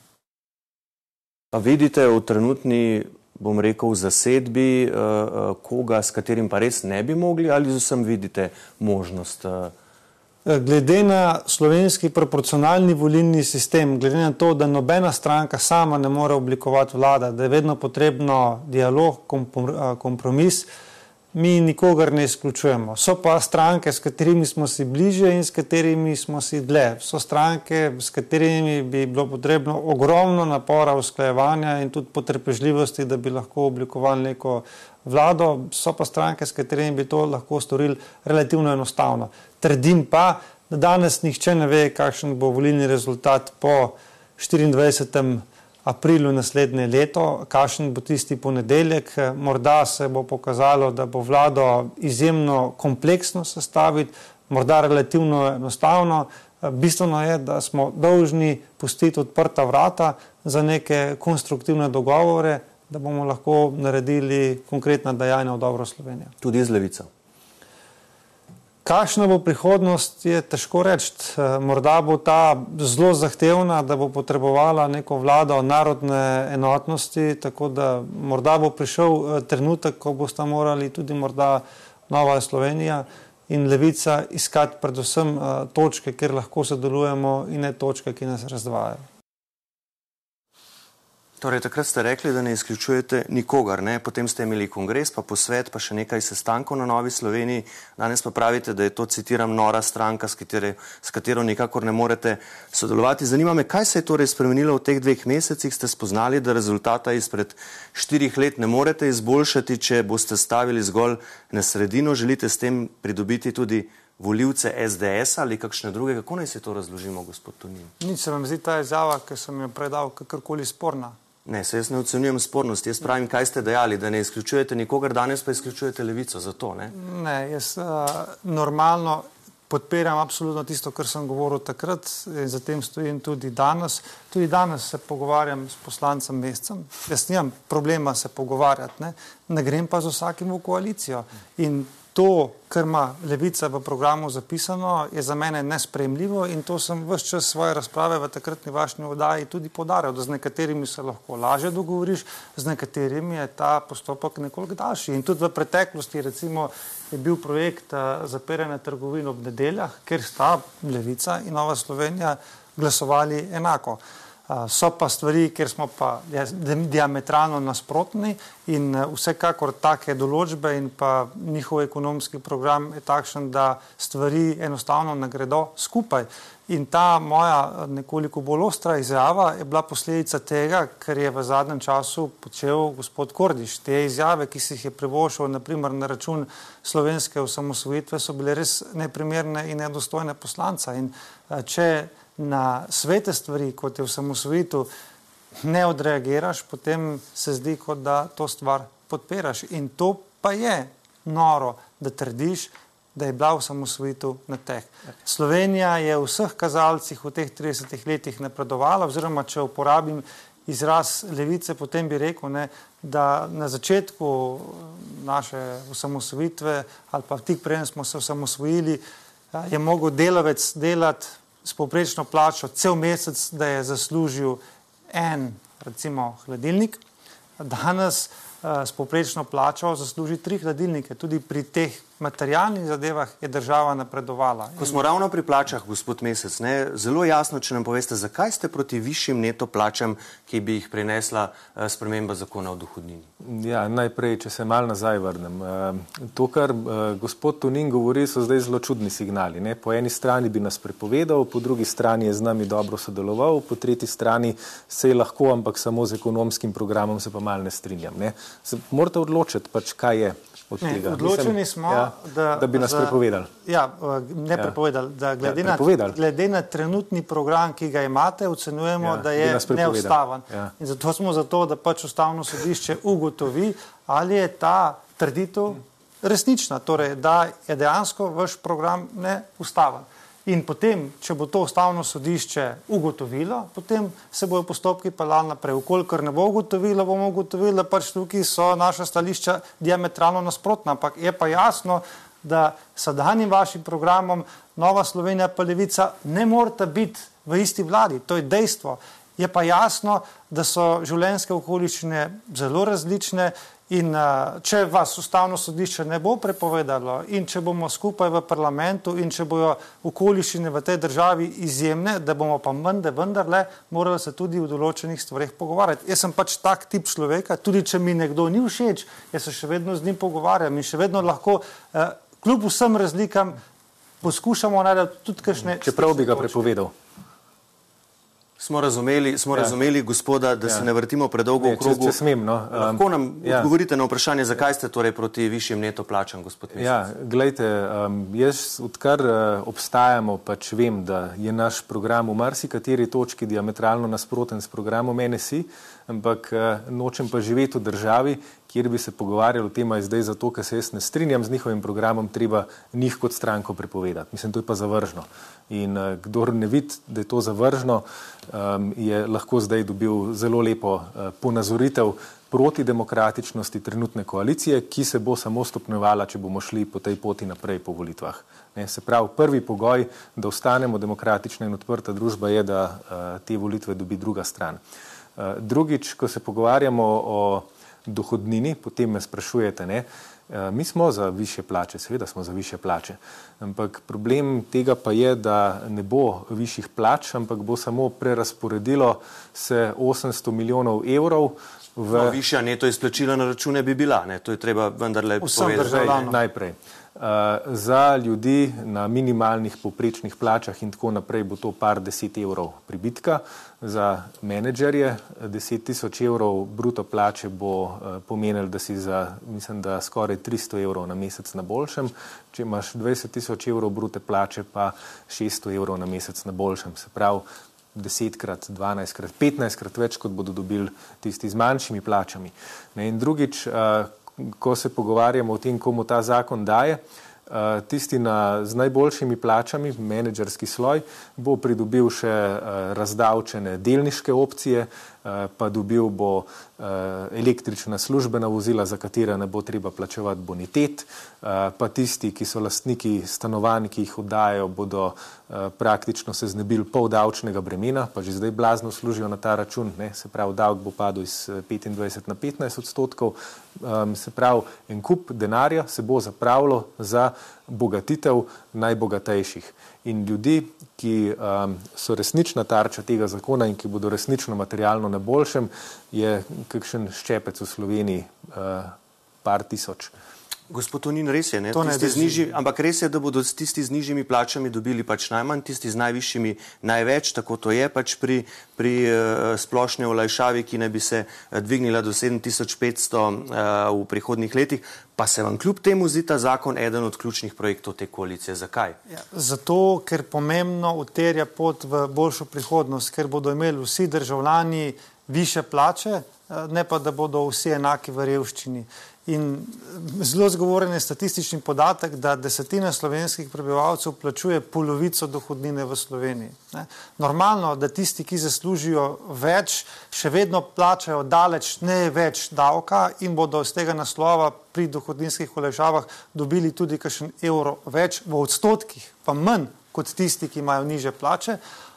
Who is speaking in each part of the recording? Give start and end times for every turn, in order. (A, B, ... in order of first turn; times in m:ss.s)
0:01.5-0:09.7 A
0:10.5-0:20.7 B
0:21.3-1:06.3 B
1:06.4-1:07.1 A
1:08.8-1:29.0 B
1:31.4-1:57.9 A
1:58.0-2:01.2 B
2:01.5-2:06.9 A
2:06.9-3:14.9 B
3:15.6-3:39.0 B
3:39.5-3:47.0 B
3:47.6-3:55.0 B
3:54.8-4:03.3 A
4:03.4-4:23.5 C
4:20.8-5:23.6 B
4:25.4-4:26.2 C
4:29.0-4:30.7 C
5:24.2-5:26.6 B
5:25.6-5:26.9 C
5:28.6-5:32.2 A
5:31.6-5:33.7 C
5:32.7-5:36.9 A
5:36.8-6:14.8 C
6:15.4-6:32.4 C
6:32.1-6:36.3 A
6:35.4-6:36.4 B
6:35.6-7:50.1 C
7:50.7-8:09.0 A
7:51.7-7:52.5 B
8:09.1-8:41.6 B